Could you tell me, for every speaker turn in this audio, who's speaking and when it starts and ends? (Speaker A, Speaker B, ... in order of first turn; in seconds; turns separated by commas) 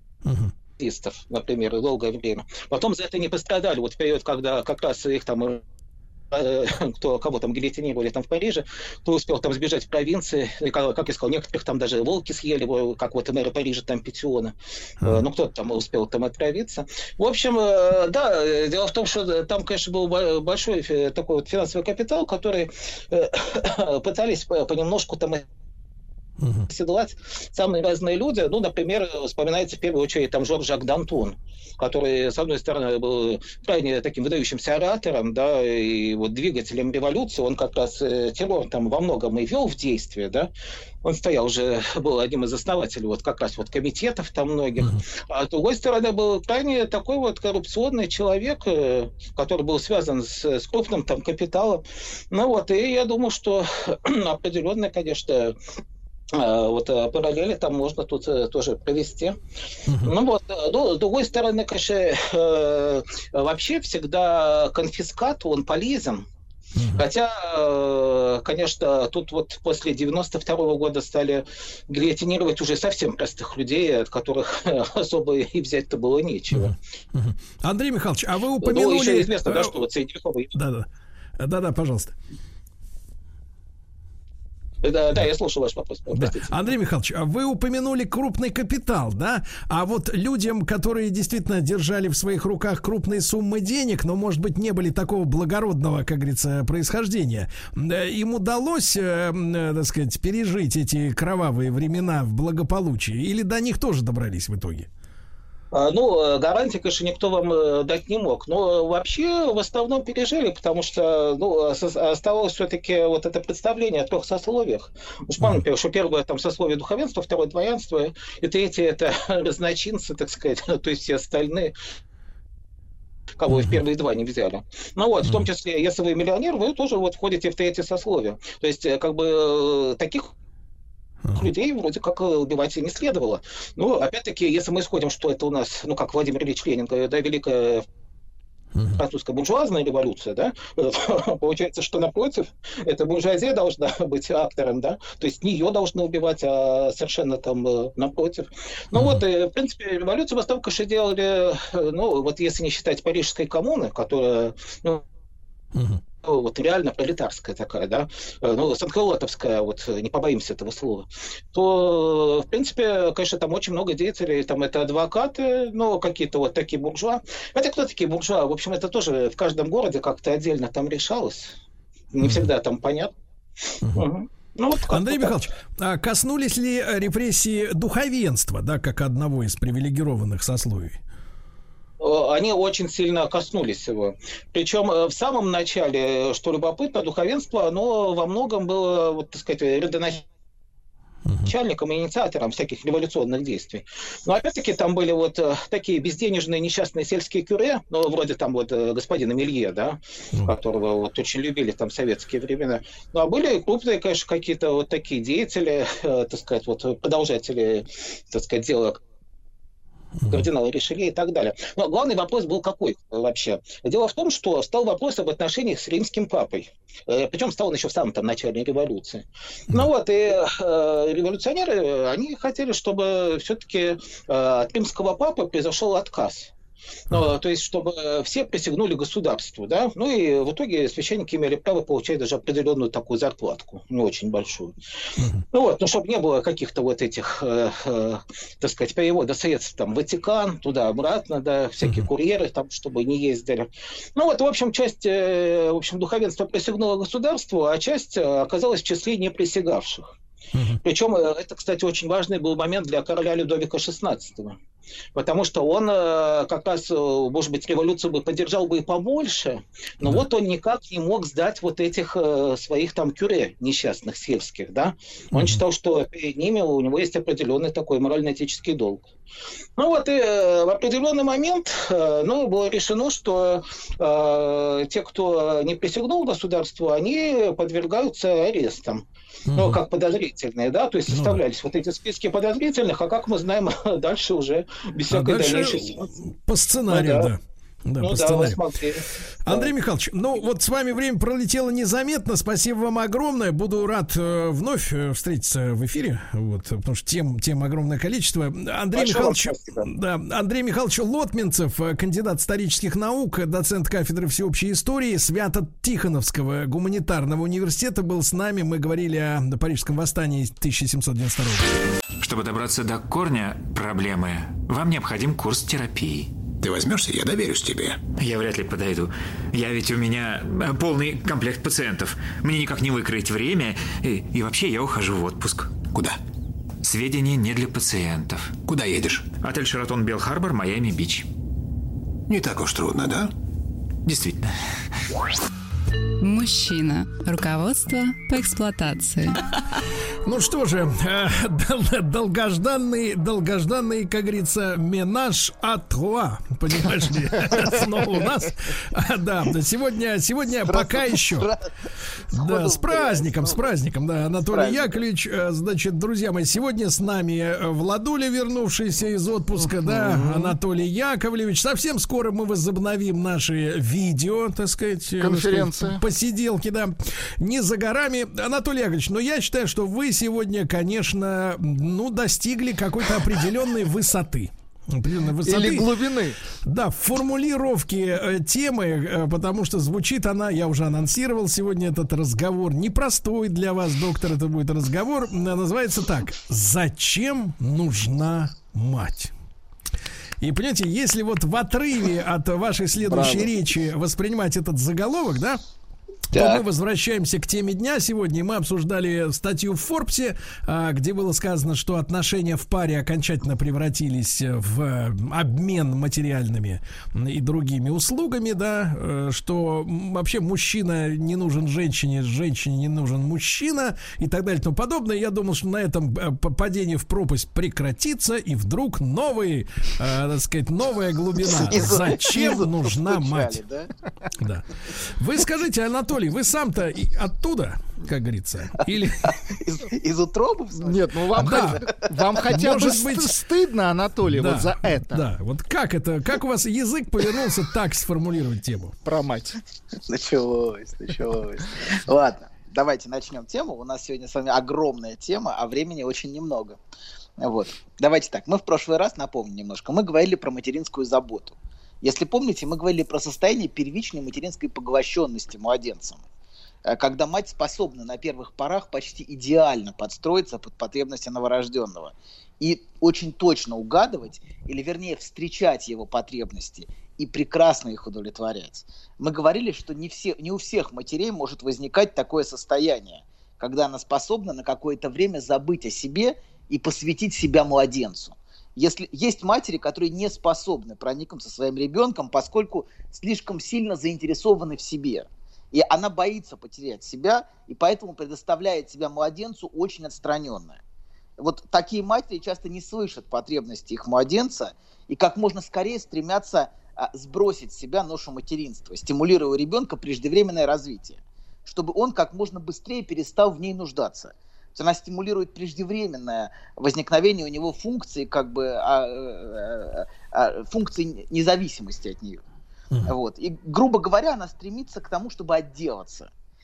Speaker A: 0.2-0.5, Speaker B: 0.8-5.6, Speaker B: 6.3-25.4, Speaker A: 26.4-26.7, Speaker B: 26.7-40.5, Speaker B: 41.0-55.6, Speaker B: 56.3-59.4, Speaker A: 59.9-60.1, Speaker B: 60.0-66.3, Speaker A: 66.7-67.0, Speaker B: 66.9-76.7, Speaker A: 76.5-79.8, Speaker B: 78.6-80.5, Speaker A: 80.5-82.1, Speaker B: 84.8-86.7, Speaker A: 86.1-104.9, Speaker B: 105.7-121.7, Speaker B: 123.4-130.3, Speaker A: 123.5-123.8, Speaker A: 125.2-125.5, Speaker B: 131.3-137.8, Speaker A: 138.7-139.0, Speaker B: 138.9-155.0, Speaker A: 148.9-149.2, Speaker A: 155.7-156.0, Speaker B: 156.2-171.5, Speaker B: 172.1-173.1, Speaker A: 172.2-172.5, Speaker B: 173.9-175.4, Speaker A: 174.9-181.0, Speaker B: 182.0-190.2, Speaker A: 191.3-191.5, Speaker B: 191.4-209.0, Speaker A: 210.2-210.5, Speaker B: 210.3-226.5, Speaker B: 227.1-234.7, Speaker A: 235.2-235.4, Speaker B: 235.5-250.1, Speaker A: 241.8-242.1, Speaker A: 250.5-250.8, Speaker B: 250.8-254.6, Speaker B: 255.1-269.1, Speaker A: 265.3-265.6, Speaker B: 269.8-286.1, Speaker A: 279.5-279.8, Speaker A: 281.1-281.4, Speaker A: 285.1-288.6, Speaker B: 286.9-287.3, Speaker B: 288.0-289.7, Speaker A: 289.4-311.9, Speaker B: 298.9-299.9, Speaker C: 312.2-316.3, Speaker D: 316.6-318.0, Speaker C: 318.1-325.7, Speaker D: 325.9-326.2, Speaker C: 326.8-331.3, Speaker D: 328.8-329.1, Speaker D: 332.3-333.3, Speaker C: 334.1-334.5, Speaker E: 336.2-339.4, Speaker A: 340.2-351.5, Speaker F: 350.6-351.6, Speaker A: 352.3-375.9, Speaker F: 352.3-353.7, Speaker F: 354.5-355.0, Speaker G: 359.6-360.6, Speaker G: 365.2-366.0, Speaker G: 375.4-376.4, Speaker A: 376.6-389.3, Speaker A: 390.4-395.6, Speaker G: 393.1-393.6, Speaker A: 396.3-423.6, Speaker F: 396.3-396.6, Speaker F: 421.5-423.9, Speaker A: 424.4-429.4, Speaker F: 429.5-431.8, Speaker G: 430.8-435.2, Speaker A: 431.3-431.8, Speaker A: 432.5-433.4, Speaker A: 434.3-438.9, Speaker G: 439.1-439.6, Speaker F: 440.1-446.8, Speaker F: 447.4-456.2, Speaker F: 456.9-490.8, Speaker F: 491.4-512.4, Speaker F: 513.0-516.3